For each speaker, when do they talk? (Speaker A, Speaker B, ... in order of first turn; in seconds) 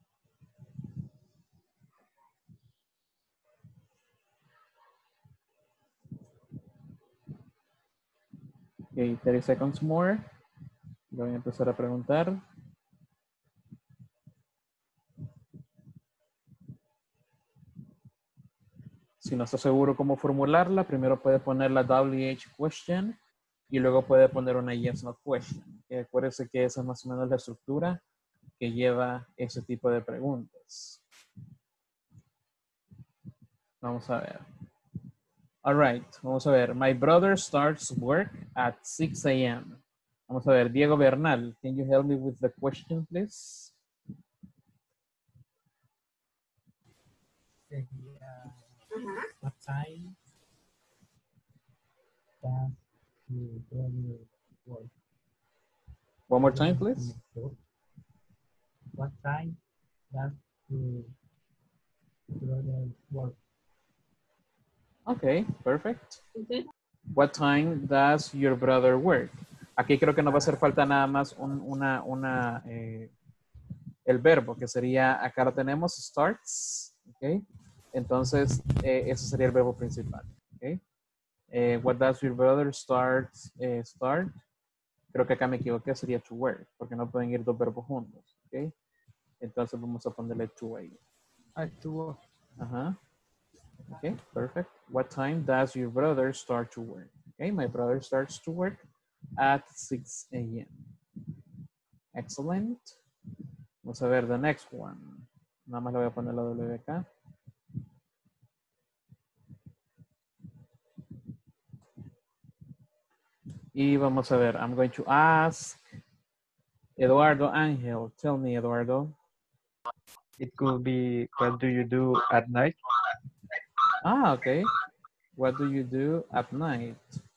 Speaker A: 8.9-10.2, 11.1-12.4, 19.2-23.2, 23.7-28.0, 28.6-31.0, 33.8-34.5, 35.6-43.7, 56.3-57.1, 65.1-66.2, 67.1-73.1, 74.0-77.4, 77.9-80.8, 81.5-84.3, 85.1-88.7, 89.4-91.0, 92.6-92.9, 93.9-98.8, 99.4-100.8, 102.1-103.0, 103.8-107.0, 113.7-115.8, 117.0-119.1, 124.0-124.7, 125.3-127.2
Speaker B: 47.7-48.5, 49.4-50.1, 52.4-52.8, 53.3-54.9, 56.5-57.5, 59.0-59.5, 60.1-61.1, 62.4-63.3, 91.5-92.2
Speaker C: 120.4-122.8